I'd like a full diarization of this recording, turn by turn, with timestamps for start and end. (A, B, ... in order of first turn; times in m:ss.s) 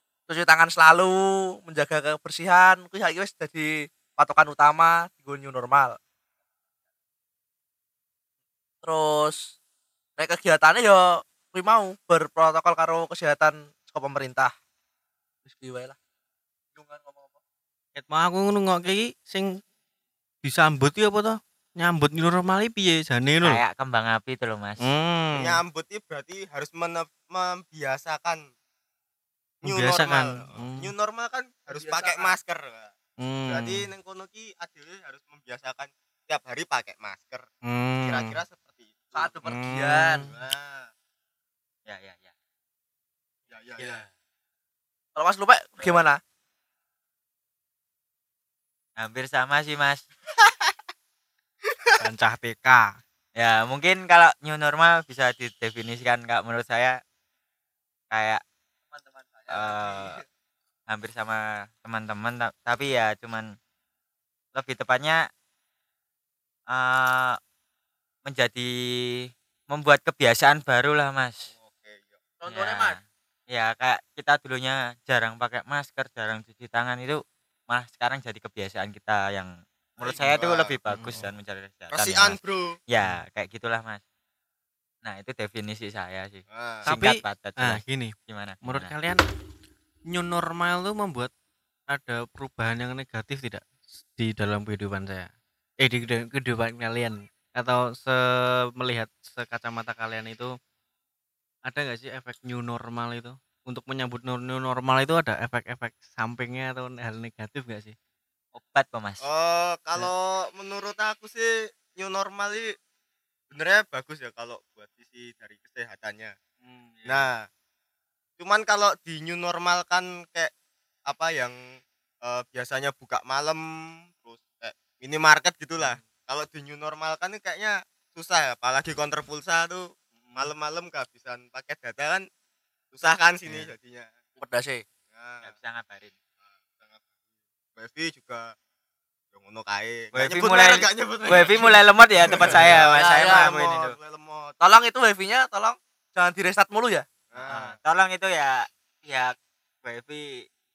0:00.3-0:06.0 A
0:08.8-0:09.5 A
0:10.2-0:14.5 A
0:15.5-0:16.0 A
0:16.8-0:17.4 A
0:18.0-0:19.6 B
0:20.4-0:23.6 B
0:23.4-0:24.8 C
0:24.8-0:25.6 B
0:25.3-0:28.4 D
0:29.6-0:30.9 B
0:29.6-0:32.9 D
0:31.7-0:32.4 A
0:33.2-0:33.9 B
0:33.5-0:37.5 D
0:37.7-0:38.4 B
0:38.0-0:39.3 D
0:39.1-0:40.3 A
0:39.4-0:40.2 B
0:40.2-0:40.9 D
0:41.9-0:42.3 C
0:43.5-0:44.0 D
0:45.2-0:46.2 A
0:49.0-0:50.0 C
0:52.0-0:53.0 B
0:53.4-0:57.0 C
0:58.1-0:58.4 C
0:58.9-1:00.2 A
0:59.5-1:00.2 C
1:00.9-1:03.5 C
1:04.6-1:05.2 C
1:06.7-1:07.4 C
1:08.2-1:08.7 C
1:09.7-1:11.5 C
1:11.5-1:12.2 D
1:12.4-1:13.0 A
1:12.5-1:24.0 C
1:20.0-1:20.7 D
1:20.9-1:21.3 B
1:21.9-1:22.8 D
1:25.0-1:28.9 C
1:26.5-1:26.9 D
1:26.8-1:29.2 B
1:30.1-1:31.3 B
1:31.9-1:40.5 B
1:41.6-1:48.0 B
1:48.6-1:49.2 C
1:49.2-1:52.7 D
1:53.5-1:56.3 D
1:56.6-1:57.2 B
1:57.1-1:57.4 D
1:58.4-2:00.5 D
2:01.1-2:12.2 D
2:12.9-2:14.1 D
2:14.4-2:14.8 A
2:15.1-2:15.5 D
2:15.4-2:16.1 C
2:17.8-2:18.5 D
2:19.3-2:24.5 D
2:20.1-2:24.0 C
2:22.8-2:23.5 A
2:24.6-2:27.0 A
2:27.3-2:27.7 D
2:27.4-2:30.5 C